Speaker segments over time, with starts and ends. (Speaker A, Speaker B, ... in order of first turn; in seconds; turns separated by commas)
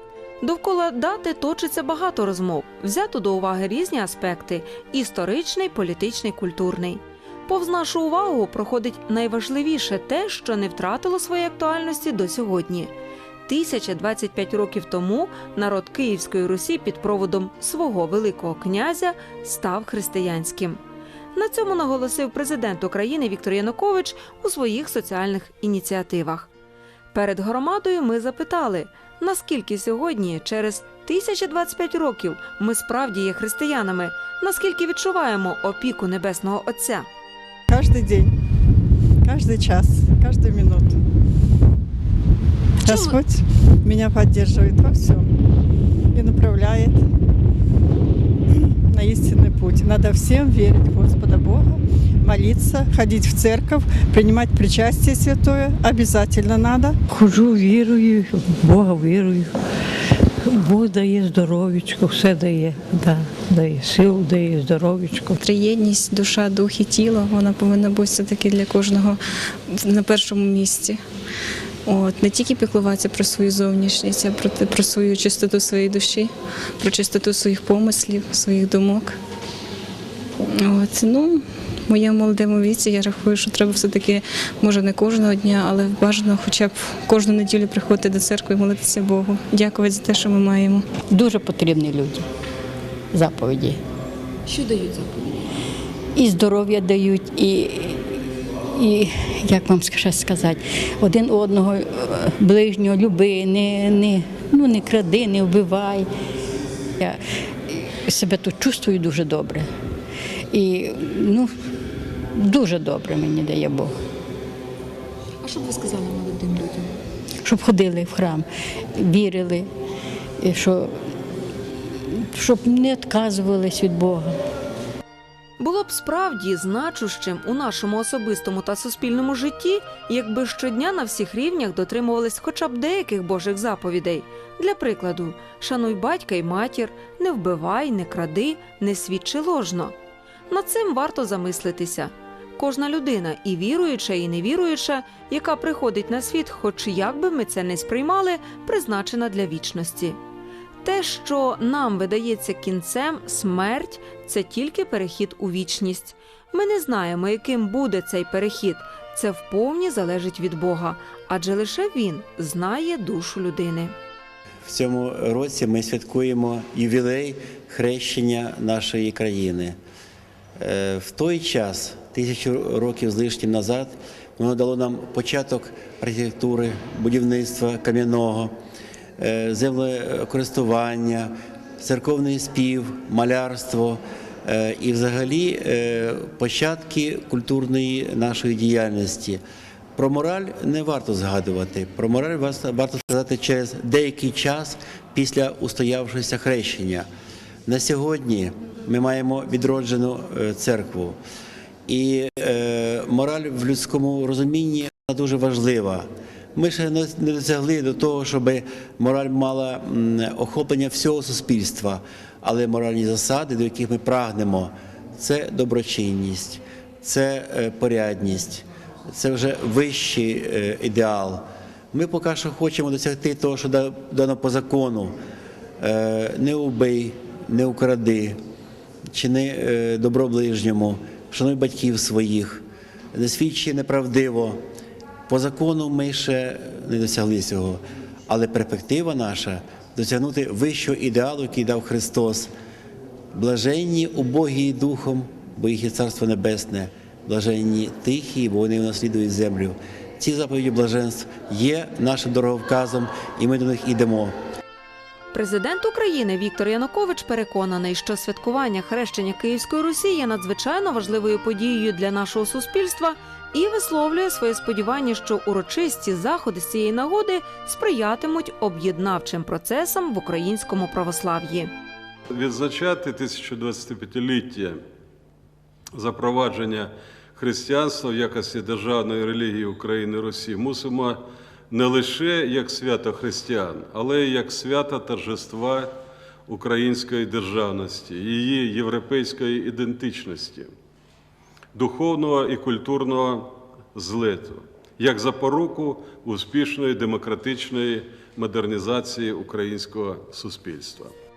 Speaker A: 0.4-12.9, Speaker A: 13.4-20.8, Speaker A: 21.3-26.5, Speaker A: 27.1-37.1, Speaker B: 37.7-38.3, Speaker B: 39.2-41.0, Speaker B: 42.8-45.3, Speaker A: 42.9-43.1, Speaker B: 46.1-47.0, Speaker B: 48.5-57.0, Speaker C: 57.1-59.5, Speaker C: 60.5-65.4, Speaker D: 65.4-71.0, Speaker D: 71.8-79.2, Speaker D: 80.5-91.1, Speaker E: 91.1-92.3, Speaker E: 93.1-93.8, Speaker E: 96.1-98.2, Speaker E: 98.7-106.1, Speaker E: 107.0-109.7, Speaker E: 110.5-111.5, Speaker E: 112.3-113.9, Speaker A: 115.6-116.6, Speaker E: 117.4-119.7, Speaker E: 120.4-121.1, Speaker E: 122.1-124.3, Speaker A: 125.6-139.9, Speaker A: 140.5-150.2, Speaker A: 150.8-163.9, Speaker F: 164.7-169.8, Speaker F: 170.6-178.5, Speaker F: 179.2-189.4, Speaker F: 190.0-197.1, Speaker F: 197.7-201.2, Speaker F: 201.9-225.2, Speaker F: 225.8-228.4, Speaker F: 229.1-234.6, Speaker F: 235.3-242.5, Speaker F: 243.3-254.3, Speaker A: 255.3-271.7, Speaker G: 272.3-274.8, Speaker G: 275.9-285.9, Speaker G: 286.5-290.7, Speaker G: 291.7-301.1